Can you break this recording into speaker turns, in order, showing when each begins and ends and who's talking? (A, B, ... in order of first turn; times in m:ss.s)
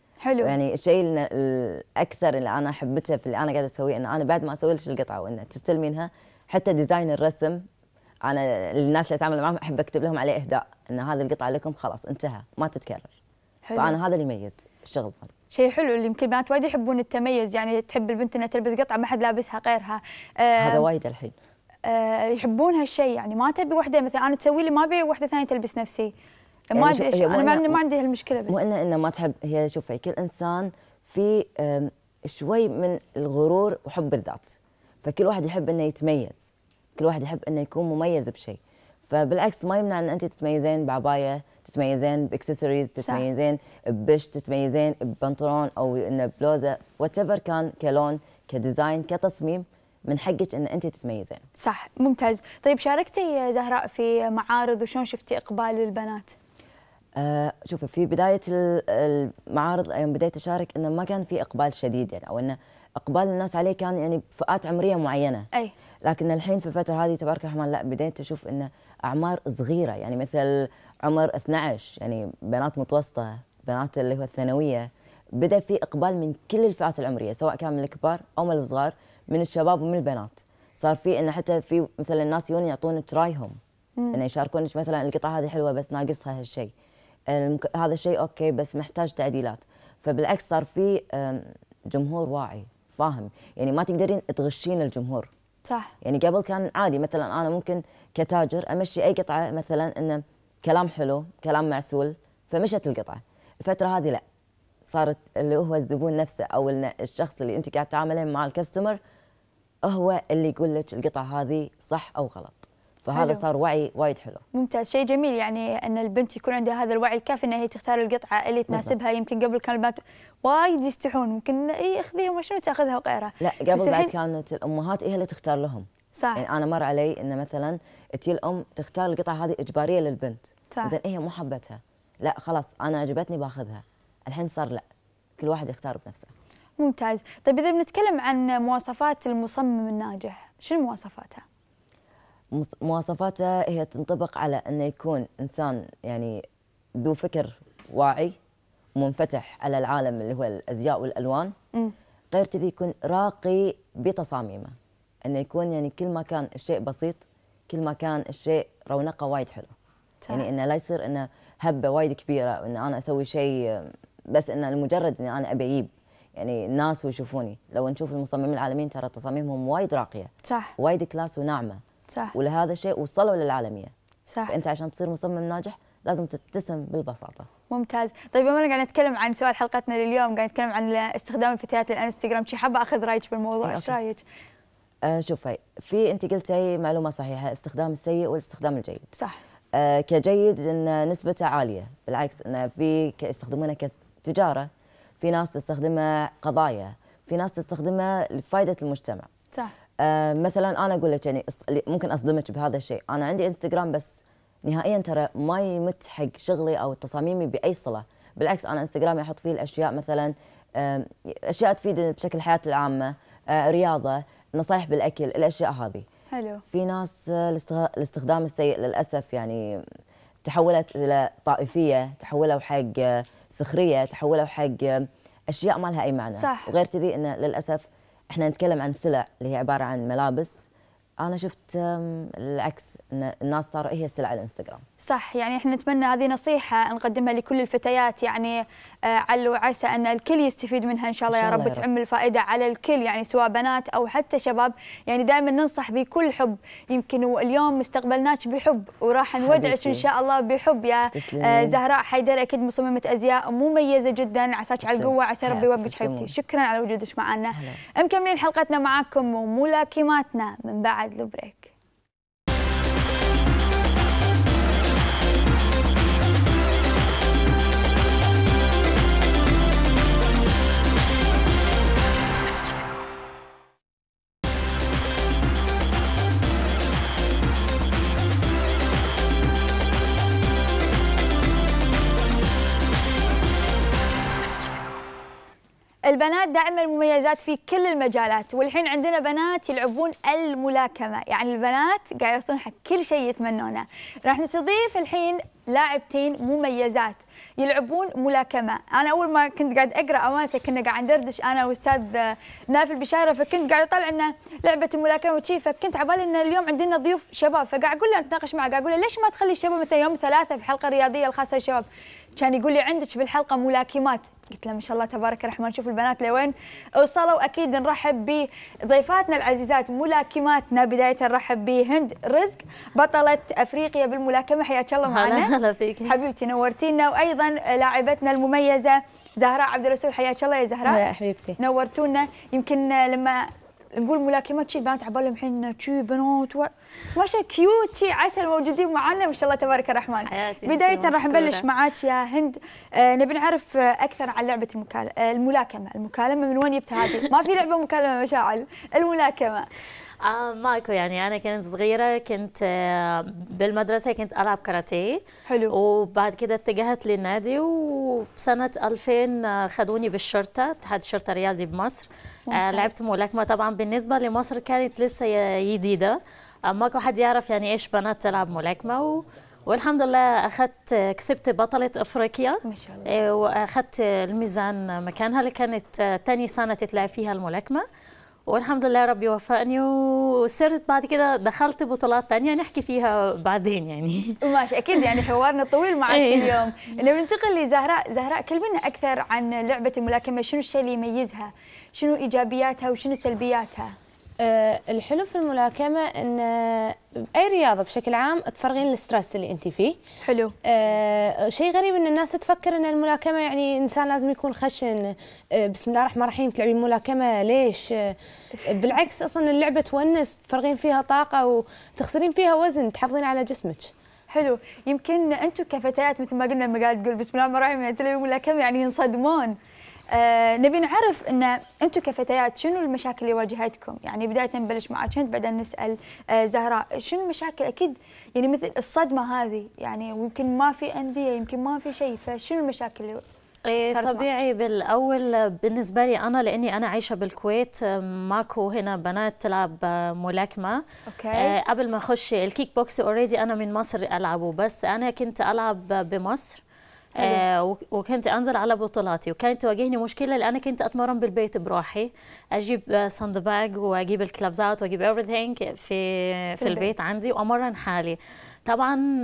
0:00.2-0:00.5 A
0:00.4-0:07.6 B
0:08.2-0:13.1 B
0:13.6-0:14.0 A
0:13.8-0:15.3 B
0:15.5-0:20.8 A
0:20.6-0:21.4 B
0:21.9-0:26.1 A
0:26.7-0:28.6 A
0:26.7-0:27.8 B
0:28.5-0:36.4 B
0:37.0-0:51.4 B
0:43.0-0:43.2 A
0:51.6-0:56.3 A
0:57.2-1:05.5 B
1:06.0-1:23.6 B
1:24.1-1:26.7 B
1:27.3-1:35.3 B
1:35.6-1:35.9 A
1:36.0-1:44.2 B
1:44.9-1:49.0 B
1:49.8-1:54.4 B
1:53.1-1:53.4 A
1:54.5-2:04.1 A
1:58.7-1:58.9 B
2:03.4-2:14.8 B
2:06.2-2:06.4 A
2:10.7-2:11.0 A
2:15.4-2:16.3 B
2:16.8-2:21.4 A
2:22.5-2:26.4 B
2:27.0-2:28.4 B
2:29.0-2:31.5 B
2:32.3-2:34.7 B
2:35.2-2:39.7 B
2:40.3-2:51.8 B
2:50.4-2:50.7 A
2:52.3-2:53.9 B
2:54.3-2:54.5 A
2:54.5-2:57.5 B
2:57.7-3:04.2 A
3:03.6-3:04.0 B
3:05.0-3:09.1 B
3:09.7-3:19.3 B
3:20.0-3:24.1 B
3:24.6-3:36.1 B
3:36.3-3:36.6 A
3:36.7-3:39.8 B
3:40.4-3:50.5 B
3:46.4-3:46.7 A
3:51.2-3:54.8 B
3:55.0-4:21.7 A
4:01.3-4:01.9 B
4:09.4-4:10.1 B
4:11.1-4:11.8 B
4:14.8-4:16.3 B
4:17.5-4:17.8 B
4:46.1-5:11.9 A
5:12.4-5:31.0 A
5:25.1-5:26.2 C
5:30.8-5:31.6 D
5:31.6-5:49.6 A
5:40.2-5:41.6 C
5:50.2-6:17.8 C
5:55.5-5:55.7 A
6:02.5-6:02.9 A
6:12.6-6:13.2 A
6:18.5-6:24.4 C
6:24.4-6:33.9 A
6:25.0-6:25.3 C
6:26.1-6:26.7 C
6:34.4-6:40.0 D
6:40.2-6:40.5 A
6:40.6-6:48.1 D
6:48.7-6:53.9 D
6:54.3-6:59.5 A
7:00.1-7:13.2 A
7:13.7-7:20.8 C
7:13.9-7:14.3 A
7:21.1-7:21.5 A
7:21.4-7:26.6 C
7:27.2-7:27.4 A
7:27.2-7:39.0 C
7:36.6-7:36.9 A